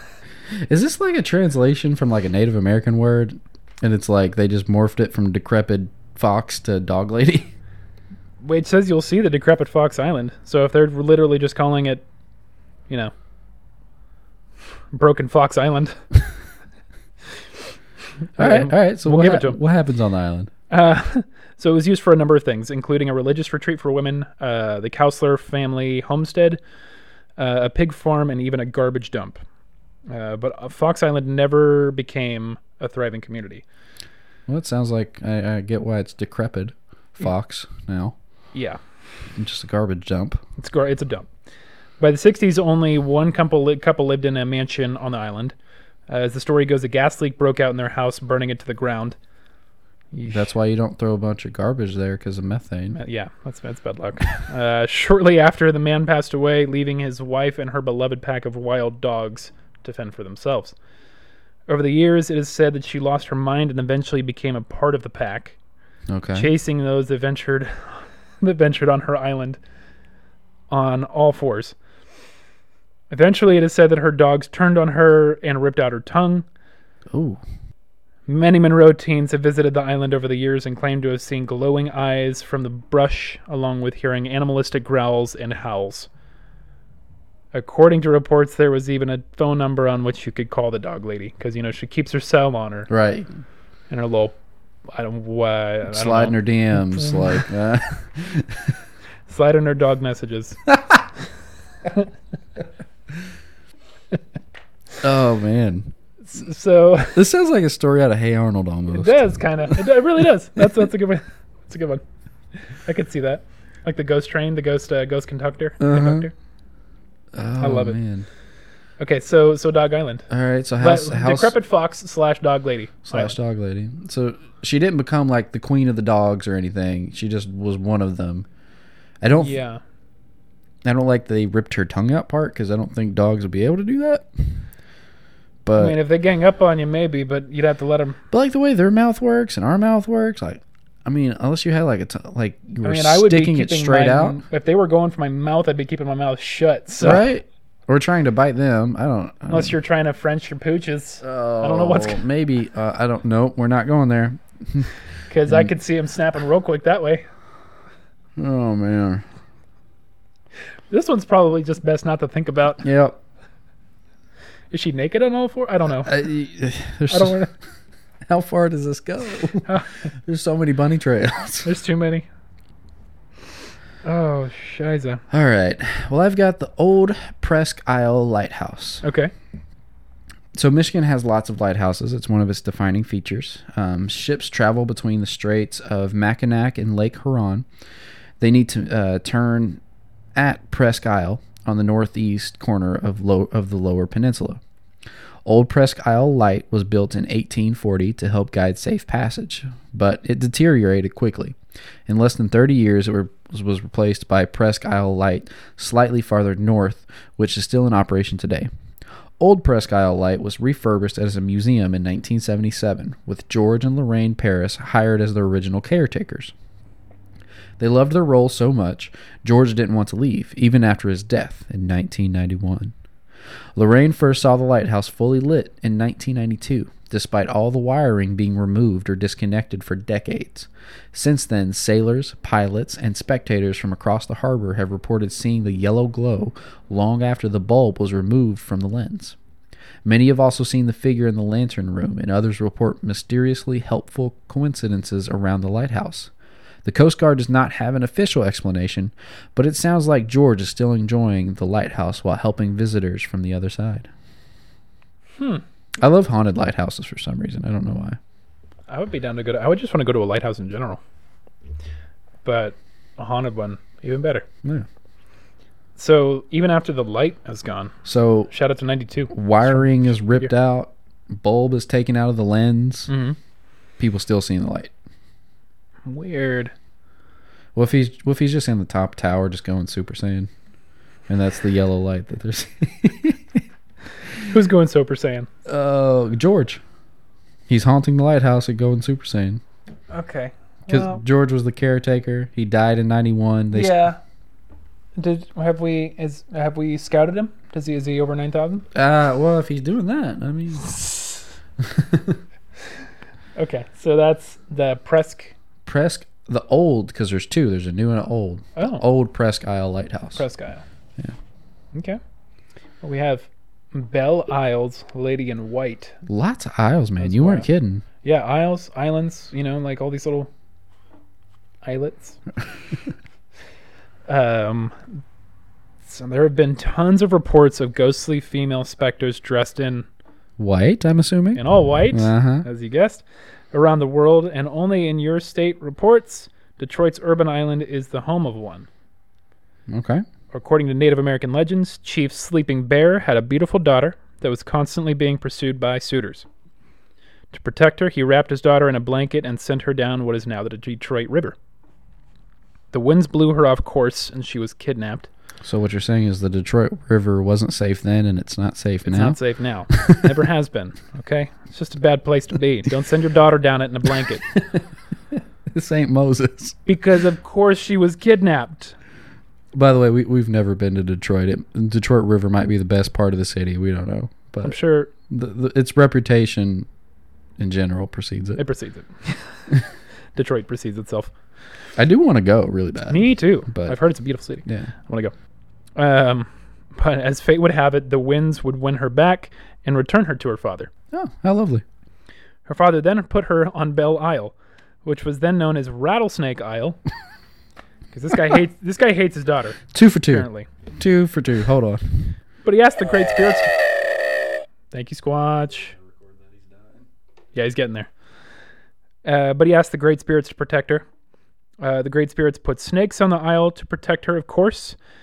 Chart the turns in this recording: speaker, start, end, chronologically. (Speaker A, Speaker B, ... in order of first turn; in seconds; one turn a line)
Speaker A: 0.5-7.5
Speaker B: 8.4-12.0
Speaker B: 14.9-16.0
Speaker B: 18.4-19.6
Speaker A: 18.4-20.5
Speaker B: 20.7-26.6
Speaker B: 27.4-29.4
Speaker B: 30.1-33.6
Speaker A: 34.5-38.1
Speaker B: 38.5-38.8
Speaker A: 39.4-40.4
Speaker B: 40.6-41.3
Speaker B: 42.0-45.5
Speaker B: 46.1-49.1
Speaker B: 50.1-50.5
Speaker A: 50.3-53.0
Speaker B: 52.9-60.7
Speaker B: 61.7-65.6
Speaker A: 66.1-66.5
Speaker B: 66.3-69.6
Speaker B: 70.7-71.7
Speaker B: 73.1-76.5
Speaker A: 77.1-77.4
Speaker B: 78.3-86.1
Speaker B: 87.5-92.9
Speaker A: 92.9-93.3
Speaker B: 93.9-94.3
Speaker B: 94.9-96.4
Speaker A: 95.9-98.7
Speaker B: 96.9-97.3
Speaker B: 99.3-100.7
Speaker A: 105.0-105.9
Speaker B: 106.2-107.2
Speaker A: 107.1-109.8
Speaker B: 108.9-112.0
Speaker B: 112.7-116.3
Speaker A: 115.8-116.3
Speaker A: 117.3-118.3
Speaker B: 117.6-118.0
Speaker B: 119.0-120.3
Speaker A: 120.3-121.5
Speaker B: 120.8-123.3
Speaker A: 123.0-128.5
Speaker A: 129.2-129.6
Speaker B: 129.4-129.8
Speaker A: 130.8-134.6
Speaker A: 135.6-136.0
Speaker B: 135.8-138.2
Speaker A: 138.3-144.4
Speaker B: 142.8-147.2
Speaker A: 147.0-149.7
Speaker B: 149.5-152.2
Speaker A: 151.2-154.9
Speaker B: 155.3-157.2
Speaker A: 158.4-159.2
Speaker B: 160.9-162.8
Speaker A: 162.8-163.2
Speaker B: 164.7-166.2
Speaker A: 166.0-167.4
Speaker B: 167.1-167.5
Speaker A: 168.2-171.7
Speaker B: 169.7-170.0
Speaker B: 171.6-172.2
Speaker B: 174.0-175.2
Speaker A: 175.3-179.0
Speaker B: 179.0-179.3
Speaker A: 180.5-187.7
Speaker A: 188.4-189.8
Speaker A: 190.3-194.6
Speaker A: 195.4-201.6
Speaker A: 202.1-208.7
Speaker A: 209.4-216.5
Speaker A: 217.8-222.9
Speaker A: 223.8-239.3
Speaker A: 240.0-246.3
Speaker A: 246.8-254.1
Speaker B: 255.4-255.6
Speaker A: 256.0-258.2
Speaker B: 258.9-261.0
Speaker B: 262.4-264.4
Speaker B: 266.0-267.9
Speaker A: 268.0-268.5
Speaker B: 268.5-270.5
Speaker A: 269.3-273.1
Speaker B: 273.1-273.4
Speaker A: 274.0-274.9
Speaker B: 276.1-276.7
Speaker A: 277.7-280.5
Speaker A: 281.3-283.6
Speaker B: 284.4-285.5
Speaker A: 285.6-286.8
Speaker A: 287.7-289.6
Speaker B: 290.1-291.2
Speaker A: 290.9-294.0
Speaker B: 293.7-294.2
Speaker B: 295.2-298.9
Speaker A: 298.9-301.1
Speaker A: 301.8-302.4
Speaker B: 303.6-305.5
Speaker A: 305.9-310.4
Speaker B: 308.8-309.0
Speaker B: 310.3-310.8
Speaker B: 311.9-312.2
Speaker B: 313.0-316.2
Speaker A: 316.2-318.0
Speaker B: 317.2-317.7
Speaker B: 318.2-320.5
Speaker B: 321.8-322.4
Speaker B: 324.3-325.1
Speaker B: 326.0-330.1
Speaker A: 330.6-332.6
Speaker B: 331.5-338.9
Speaker A: 339.9-340.2
Speaker B: 340.5-346.4
Speaker B: 347.5-351.6
Speaker B: 352.9-355.3
Speaker A: 355.6-359.4
Speaker B: 359.1-364.4
Speaker A: 359.9-360.2
Speaker A: 364.5-366.8
Speaker B: 366.9-368.9
Speaker A: 369.7-376.9
Speaker B: 374.6-375.1
Speaker A: 377.6-378.6
Speaker B: 378.6-379.4
Speaker B: 380.3-381.3
Speaker A: 381.9-384.0
Speaker B: 383.1-385.3
Speaker A: 384.6-384.9
Speaker B: 385.9-390.9
Speaker A: 391.1-391.8
Speaker B: 392.6-394.5
Speaker B: 395.0-397.0
Speaker B: 398.1-400.7
Speaker A: 399.9-402.3
Speaker B: 402.6-403.8
Speaker B: 404.9-405.9
Speaker B: 407.5-408.1
Speaker B: 409.2-411.0
Speaker B: 411.8-415.0